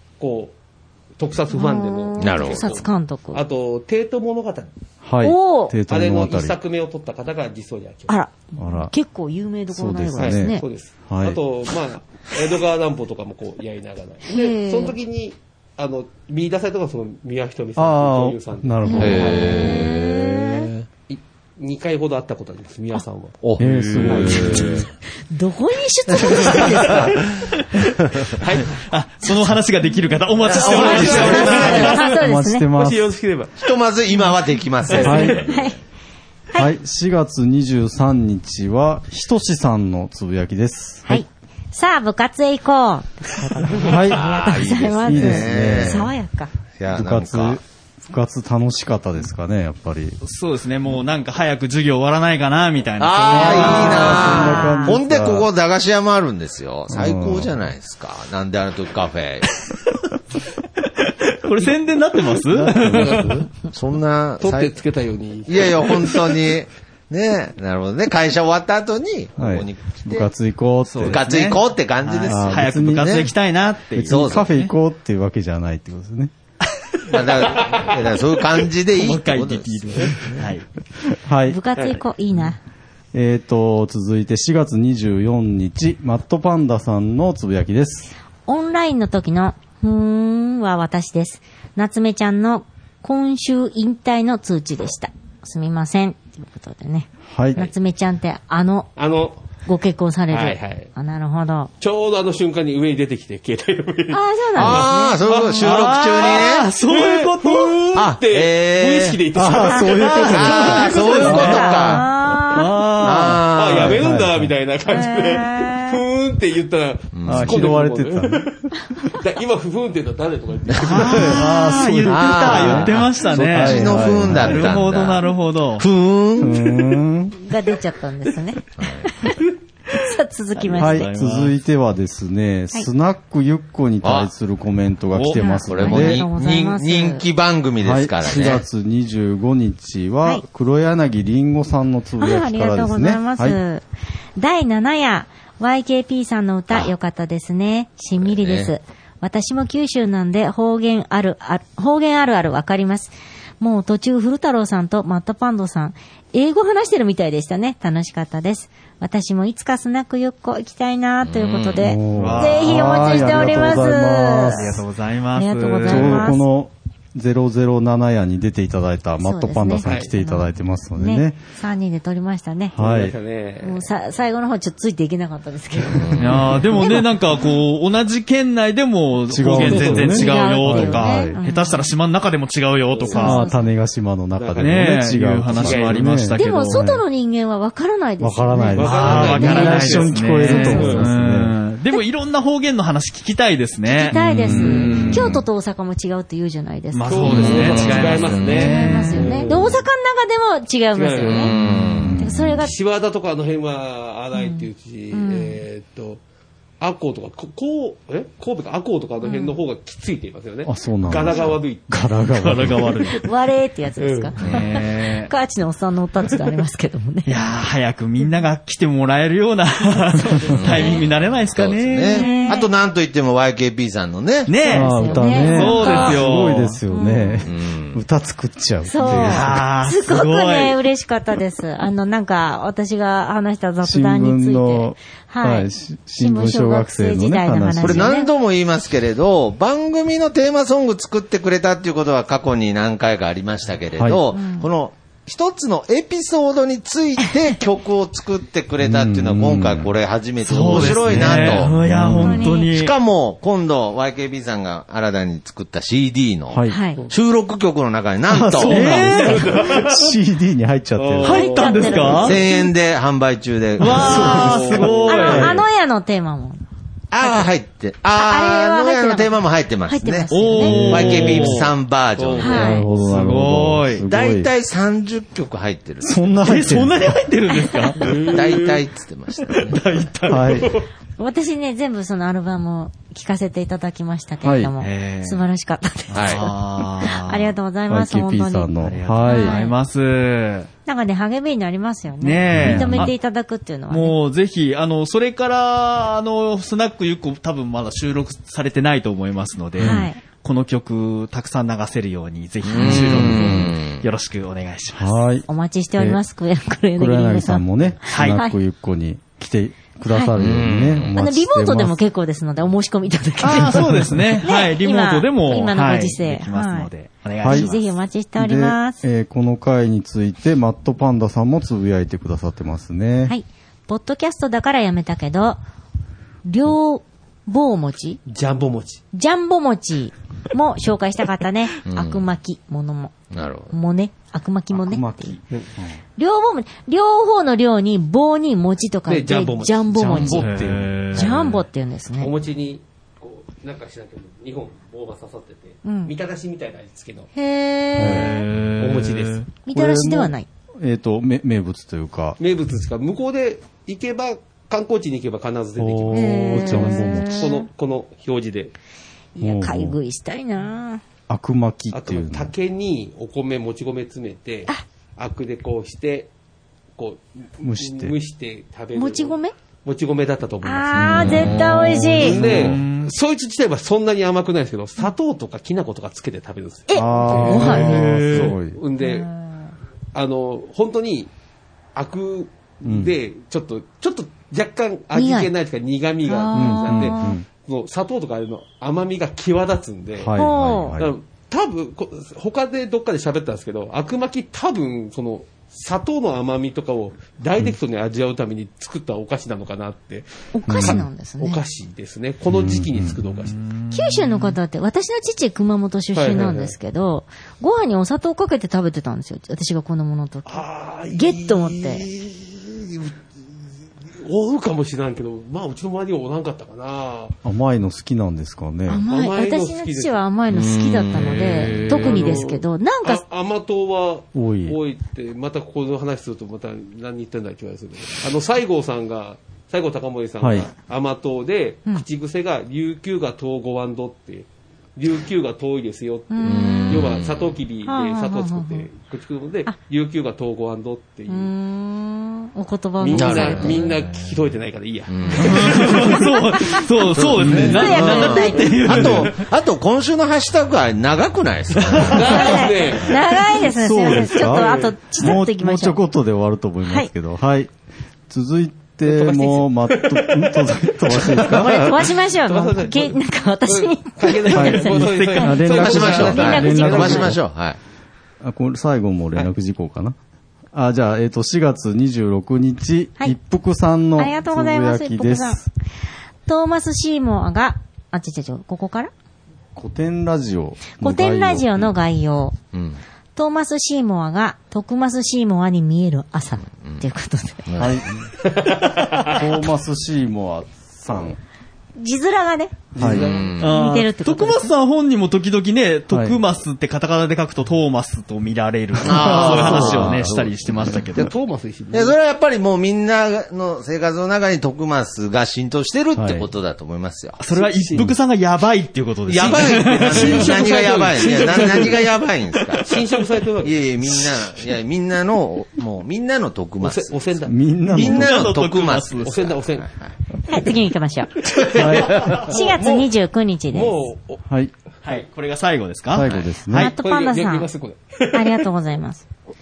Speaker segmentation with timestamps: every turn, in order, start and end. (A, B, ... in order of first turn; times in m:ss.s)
0:00.2-0:00.5 A
0:01.2-0:04.7 A
0:01.5-0:03.4 B
0:02.2-0:02.6 C
0:05.0-0:06.6 D
0:05.2-0:05.7 B
0:05.9-0:08.1 A
0:08.1-0:10.6 B
0:08.6-0:08.9 D
0:09.7-0:11.4 D
0:10.2-0:19.7 A
0:14.2-0:15.0 B
0:17.8-0:19.7 D
0:18.8-0:20.7 B
0:19.0-0:20.9 C
0:21.1-0:23.4 A
0:23.4-0:24.9 C
0:23.6-0:24.8 D
0:23.6-0:24.8 E
0:24.1-0:24.8 A
0:25.3-0:27.1 B
0:26.1-0:27.5 C
0:28.4-0:28.8 A
0:28.7-0:32.0 E
0:29.2-0:29.5 B
0:30.4-0:32.0 C
0:30.5-0:32.2 A
0:30.6-0:32.6 B
0:31.1-0:33.1 D
0:32.7-0:33.5 A
0:33.6-0:35.8 C
0:34.9-0:35.5 A
0:34.9-0:35.4 D
0:35.0-0:35.8 B
0:36.6-0:41.2 D
0:41.1-0:46.5 B
0:43.8-0:44.3 D
0:44.0-0:46.1 C
0:45.0-0:46.1 D
0:46.8-0:47.6 C
0:46.9-0:50.2 D
0:50.2-0:54.4 E
0:53.0-0:59.6 C
0:53.3-0:55.5 D
0:53.4-0:55.0 B
0:56.9-0:57.6 D
1:00.8-1:03.3 E
1:02.5-1:03.5 D
1:02.8-1:03.4 A
1:03.7-1:04.8 C
1:04.4-1:06.4 A
1:05.5-1:10.3 C
1:09.4-1:11.2 D
1:10.9-1:14.7 E
1:11.0-1:13.3 C
1:12.2-1:13.3 D
1:14.0-1:16.3 D
1:14.1-1:14.5 C
1:16.6-1:17.8 E
1:17.1-1:20.4 C
1:17.6-1:17.9 A
1:18.6-1:20.7 E
1:21.1-1:21.6 D
1:21.5-1:22.6 B
1:21.8-1:22.0 A
1:23.1-1:28.1 D
1:28.5-1:38.9 B
1:37.3-1:37.7 D
1:39.0-1:39.4 A
1:39.6-1:41.7 B
1:40.3-1:40.9 A
1:41.8-1:51.5 A
1:44.1-1:45.2 B
1:44.5-1:46.7 C
1:45.6-1:47.9 E
1:48.0-1:49.2 C
1:49.3-1:52.0 D
1:49.9-1:51.7 E
1:50.3-1:52.1 C
1:50.6-1:52.6 B
1:52.5-1:53.5 E
1:53.0-1:54.1 C
1:53.5-2:01.5 A
1:53.8-1:54.5 D
1:54.9-1:56.0 B
1:57.1-1:57.8 C
1:57.3-1:58.6 D
2:00.7-2:01.3 C
2:00.8-2:05.8 E
2:01.0-2:04.7 D
2:02.0-2:05.2 C
2:05.8-2:06.7 C
2:06.4-2:07.4 D
2:07.4-2:09.4 B
2:08.8-2:09.1 C
2:09.9-2:11.1 B
2:10.6-2:11.5 E
2:10.8-2:16.2 D
2:14.0-2:14.3 C
2:15.1-2:15.4 E
2:15.3-2:17.2 B
2:15.7-2:18.6 C
2:17.8-2:23.6 D
2:22.2-2:23.8 B
2:24.4-2:44.8 B
2:28.2-2:28.7 C
2:41.2-2:41.9 C
2:41.8-2:44.8 D
2:42.2-2:43.7 E
2:44.5-2:46.3 E
2:45.3-2:46.4 B
2:45.8-2:51.4 D
2:49.2-2:52.7 B
2:49.8-2:50.1 A
2:52.7-2:53.1 D
2:52.8-2:53.9 A
2:53.6-2:56.2 B
2:55.9-2:56.4 C
2:56.2-3:03.4 E
2:56.7-2:57.1 B
2:59.3-3:01.3 D
2:59.6-3:01.8 B
2:59.6-3:00.2 A
3:02.9-3:03.4 A
3:03.1-3:03.6 B
3:03.2-3:07.0 D
3:04.4-3:05.0 A
3:04.6-3:06.8 E
3:05.5-3:06.1 A
3:06.4-3:09.7 B
3:08.2-3:11.5 D
3:08.7-3:11.1 A
3:08.8-3:15.3 E
3:13.9-3:17.7 B
3:14.1-3:15.4 D
3:16.9-3:19.5 E
3:17.0-3:19.8 A
3:17.3-3:18.6 C
3:18.5-3:21.5 B
3:18.8-3:19.3 D
3:20.9-3:21.5 A
3:21.3-3:22.1 C
3:21.6-3:22.6 D
3:22.2-3:22.7 B
3:22.6-3:26.2 A
3:24.3-3:25.6 B
3:26.8-3:32.1 A
3:29.2-3:29.6 B
3:30.6-3:32.9 D
3:32.3-3:33.2 E
3:33.2-3:37.3 B
3:34.0-3:34.4 A
3:34.4-3:34.7 C
3:34.4-3:35.3 E
3:37.2-3:42.4 E
3:40.1-3:41.0 B
3:40.6-3:44.5 C
3:42.1-3:42.6 B
3:44.5-3:46.8 E
3:44.6-3:46.2 B
3:44.7-3:49.6 D
3:46.9-3:47.5 B
3:47.4-3:48.0 C
3:48.8-3:58.3 B
3:49.0-3:50.8 E
3:53.8-3:58.1 D
3:57.8-4:11.7 C
4:03.9-4:04.2 D
4:04.3-4:04.7 B
4:08.8-4:09.9 D
4:10.4-4:13.0 E
4:10.6-4:12.5 D
4:12.0-4:12.7 B
4:12.6-4:19.0 C
4:16.5-4:16.8 D
4:16.7-4:17.0 B
4:18.3-4:21.5 D
4:18.6-4:19.8 E
4:18.9-4:20.1 A
4:21.0-4:22.4 A
4:21.2-4:22.4 E
4:21.3-4:22.5 B
4:22.2-4:24.7 C
4:23.8-4:25.6 E
4:24.0-4:24.7 D
4:24.0-4:25.5 A
4:25.0-4:26.6 B
4:25.2-4:25.6 D
4:27.1-4:32.7 C
4:27.2-4:27.5 B
4:28.1-4:30.9 B
4:30.3-4:31.7 E
4:30.6-4:31.1 D
4:31.1-4:31.6 A
4:32.2-4:32.6 A
4:32.4-4:32.9 B
4:32.5-4:34.5 D
4:33.0-4:34.0 E
4:34.1-4:36.3 C
4:36.0-4:37.2 D
4:36.4-4:38.3 E
4:38.0-4:38.8 A
4:38.3-4:39.9 C
4:39.5-4:40.7 E
4:40.3-4:40.7 D
4:40.4-4:40.9 A
4:41.2-4:48.7 B
4:44.4-4:44.7 D
4:44.8-4:45.4 E
4:46.1-4:47.5 E
4:46.1-4:46.5 C
4:47.9-4:49.5 D
4:48.8-4:50.7 E
4:49.2-4:49.7 B
4:50.8-4:54.1 B
4:52.2-4:53.1 E
4:52.5-4:53.1 D
4:53.9-5:05.2 E
4:59.8-5:00.1 D
4:59.8-5:00.2 B
5:02.7-5:04.0 C
5:02.8-5:03.8 D
5:04.9-5:06.2 D
5:05.5-5:08.6 B
5:07.0-5:12.0 D
5:08.1-5:08.4 E
5:10.4-5:11.1 C
5:11.1-5:16.9 B
5:13.4-5:18.0 E
5:13.7-5:14.2 D
5:17.4-5:17.7 D
5:17.4-5:19.0 B
5:18.4-5:23.3 D
5:23.3-5:25.6 B
5:26.4-5:28.2 B
5:28.3-5:29.0 A
5:29.1-5:33.1 B
5:31.8-5:32.2 C
5:33.3-5:33.7 C
5:33.7-5:35.4 B
5:34.7-5:35.4 D
5:36.2-5:40.5 B
5:39.1-5:40.2 A
5:39.9-5:41.3 D
5:40.3-5:41.6 E
5:41.1-5:42.3 B
5:42.2-5:47.3 A
5:45.8-5:46.1 B
5:47.4-5:48.5 B
5:48.0-5:48.3 D
5:48.0-5:49.4 E
5:48.8-5:49.4 A
5:49.6-5:50.4 B
5:49.7-5:52.4 D
5:52.4-5:58.7 A
5:55.8-5:57.6 D
5:56.1-5:57.7 B
5:59.3-6:01.0 B
5:59.4-6:00.0 D
6:01.3-6:02.5 D
6:01.9-6:06.3 A
6:07.0-6:11.6 A
6:07.6-6:08.1 D
6:08.9-6:09.5 B
6:10.6-6:12.4 B
6:11.0-6:13.1 E
6:11.0-6:12.8 D
6:12.2-6:19.3 A
6:16.9-6:17.9 B
6:16.9-6:18.8 D
6:17.3-6:18.5 E
6:19.0-6:19.7 B
6:20.1-6:21.3 A
6:21.9-6:30.3 A
6:22.8-6:23.1 D
6:25.1-6:25.5 B
6:26.3-6:27.4 B
6:26.5-6:27.4 D
6:30.2-6:31.2 D
6:30.3-6:31.0 B
6:31.0-6:43.6 A
6:40.5-6:41.6 B
6:40.7-6:41.0 D
6:42.5-6:43.2 D
6:43.4-6:44.6 E
6:43.9-6:52.1 B
6:46.1-6:46.8 A
6:50.4-6:53.2 A
6:54.2-6:57.3 A
6:57.4-6:59.0 D
6:58.9-7:03.2 B
6:59.0-7:00.2 A
7:00.5-7:01.3 C
7:01.1-7:02.4 E
7:01.6-7:21.5 A
7:04.3-7:04.8 D
7:10.4-7:10.7 D
7:16.3-7:17.2 B
7:16.4-7:17.6 C
7:17.8-7:18.9 B
7:21.3-7:23.8 B
7:23.0-7:26.3 A
7:23.1-7:24.0 C
7:25.1-7:25.9 C
7:25.4-7:29.4 E
7:26.1-7:26.9 B
7:27.1-7:32.6 C
7:27.4-7:27.8 D
7:27.6-7:28.8 B
7:31.9-7:33.2 A
7:32.2-7:36.0 B
7:33.5-7:37.7 D
7:34.6-7:34.9 A
7:36.8-7:37.1 B
7:38.3-7:41.9 D
7:39.0-7:47.3 A
7:41.5-7:45.5 B
7:44.5-7:47.4 D
7:44.8-7:45.6 E
7:45.7-7:47.8 C
7:46.1-7:47.3 B
7:48.4-7:50.2 D
7:50.7-7:55.7 D
7:54.2-7:55.6 B
7:56.5-7:59.1 B
7:59.7-8:01.9 D
8:01.0-8:02.6 B
8:02.7-8:03.0 C
8:03.4-8:07.7 B
8:07.7-8:08.1 C
8:07.8-8:08.3 D
8:08.4-8:09.4 A
8:09.3-8:11.4 D
8:12.0-8:12.8 B
8:12.9-8:13.4 D
8:13.0-8:13.5 A
8:13.0-8:13.7 C
8:13.6-8:21.3 E
8:13.6-8:14.7 B
8:16.1-8:16.4 D
8:19.0-8:21.1 C
8:19.0-8:20.4 D
8:21.1-8:22.2 A
8:21.9-8:27.4 C
8:26.1-8:26.4 D
8:27.4-8:30.7 E
8:27.5-8:28.1 A
8:29.3-8:33.0 C
8:29.7-8:32.1 A
8:32.8-8:33.8 A
8:33.6-8:37.2 C
8:36.8-8:38.4 A
8:37.4-8:38.5 D
8:37.9-8:39.5 E
8:37.9-8:40.1 C
8:39.2-8:39.9 A
8:40.4-8:41.3 B
8:41.4-8:43.1 A
8:41.7-8:42.4 D
8:41.8-8:42.4 C
8:42.3-8:44.0 B
8:43.7-8:44.4 A
8:45.0-8:46.9 E
8:46.1-8:46.9 D
8:46.7-8:47.7 B
8:46.9-8:48.6 A
8:48.3-8:49.2 B